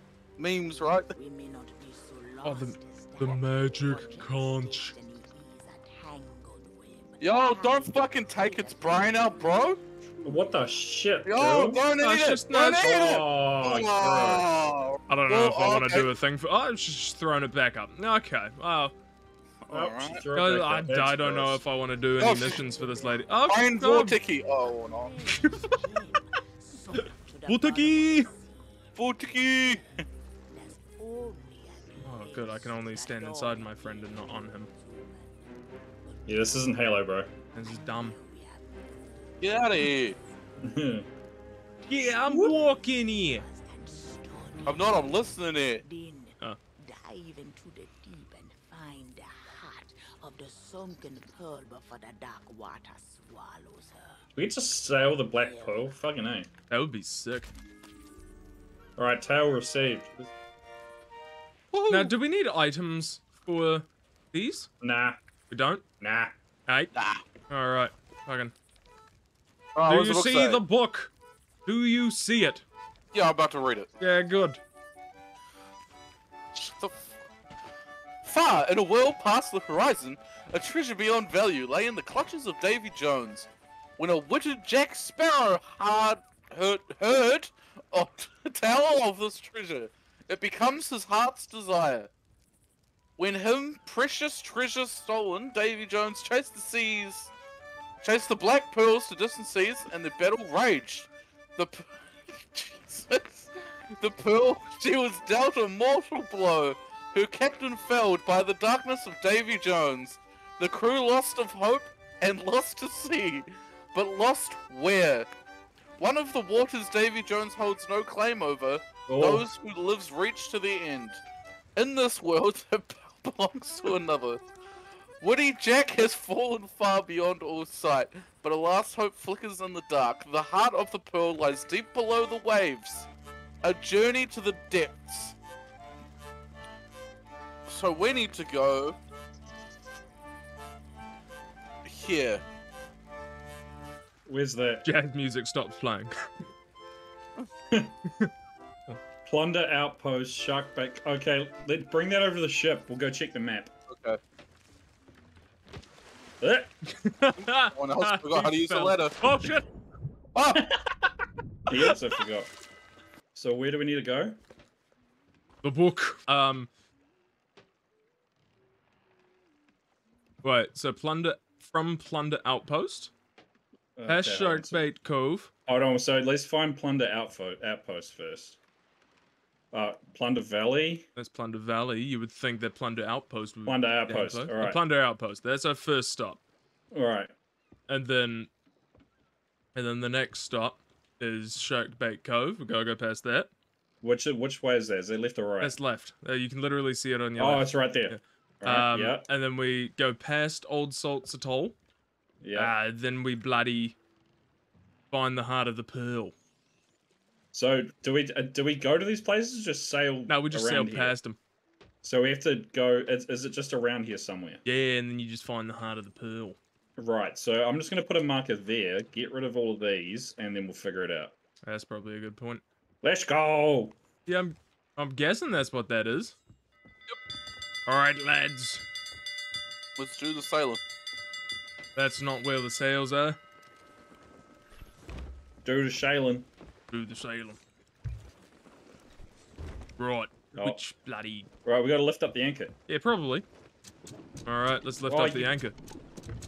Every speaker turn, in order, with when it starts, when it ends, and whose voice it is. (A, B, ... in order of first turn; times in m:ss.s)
0:00.4-0:01.1 A
0:01.1-0:10.6 B
0:02.4-0:04.9 C
0:07.2-0:09.8 A
0:10.2-0:11.8 D
0:11.2-0:16.1 A
0:11.9-0:12.9 C
0:12.8-0:14.4 D
0:15.1-0:18.9 C
0:19.6-0:20.2 A
0:19.7-0:21.6 D
0:20.3-0:24.2 C
0:22.2-0:22.6 A
0:22.2-0:23.3 B
0:23.4-0:25.2 A
0:24.4-0:29.0 B
0:25.2-0:25.8 C
0:26.9-0:28.3 C
0:29.0-0:30.0 A
0:29.6-0:36.8 B
0:32.0-0:34.7 C
0:36.2-0:37.3 D
0:37.5-0:40.4 B
0:37.5-0:38.2 C
0:39.4-0:40.2 A
0:40.6-0:41.1 D
0:41.8-0:45.2 B
0:41.9-0:43.4 C
0:42.2-0:42.5 D
0:44.6-0:45.8 A
0:45.8-0:54.2 B
0:54.3-0:56.5 D
0:55.2-0:55.9 B
0:56.7-0:57.5 C
0:59.0-1:00.3 D
1:01.7-1:02.1 A
1:01.9-1:04.7 C
1:04.8-1:05.2 D
1:05.5-1:05.8 C
1:06.0-1:06.3 D
1:06.9-1:07.2 A
1:07.5-1:08.5 C
1:09.7-1:10.6 A
1:09.9-1:11.1 C
1:11.6-1:12.6 C
1:13.1-1:13.9 A
1:14.0-1:14.6 C
1:16.5-1:17.1 A
1:18.2-1:32.1 A
1:33.2-1:37.3 A
1:38.0-1:55.3 A
1:56.0-2:01.2 A
1:59.1-1:59.4 D
2:01.8-2:04.4 A
2:05.2-2:13.1 A
2:13.6-2:15.3 A
2:17.6-2:19.0 A
2:21.8-2:22.4 A
2:24.2-2:24.9 D
2:24.8-2:26.3 C
2:29.2-2:33.7 D
2:33.9-2:34.2 A
2:36.4-2:36.7 D
2:36.8-2:39.6 C
2:37.7-2:39.2 A
2:40.3-2:40.7 A
2:40.5-2:41.1 D
2:41.7-2:42.5 D
2:43.3-2:44.4 D
2:45.6-2:46.7 C
2:50.4-2:53.1 C
2:54.0-2:54.8 D
2:54.1-2:55.5 C
2:55.7-2:58.6 D
2:59.7-3:01.0 D
3:01.2-3:06.4 C
3:03.6-3:04.8 D
3:06.9-3:07.3 D
3:07.9-3:08.5 C
3:09.7-3:13.5 C
3:14.0-3:15.8 D
3:15.6-3:21.8 C
3:17.4-3:19.2 D
3:22.4-3:22.7 D
3:22.6-3:24.0 C
3:25.1-3:26.3 C
3:27.5-3:31.2 D
3:30.3-3:31.4 C
3:32.0-3:34.6 D
3:34.6-3:36.6 C
3:37.0-3:41.3 D
3:41.6-3:42.6 C
3:43.0-3:44.0 D
3:44.2-3:46.4 C
3:47.9-3:48.8 C
3:50.0-3:50.8 A
3:51.9-3:53.4 C
3:55.6-3:56.5 D
3:56.9-3:57.6 C
4:00.0-4:01.5 C
4:01.6-4:02.8 D
4:02.9-4:03.4 C
4:04.4-4:05.7 C
4:05.1-4:05.5 D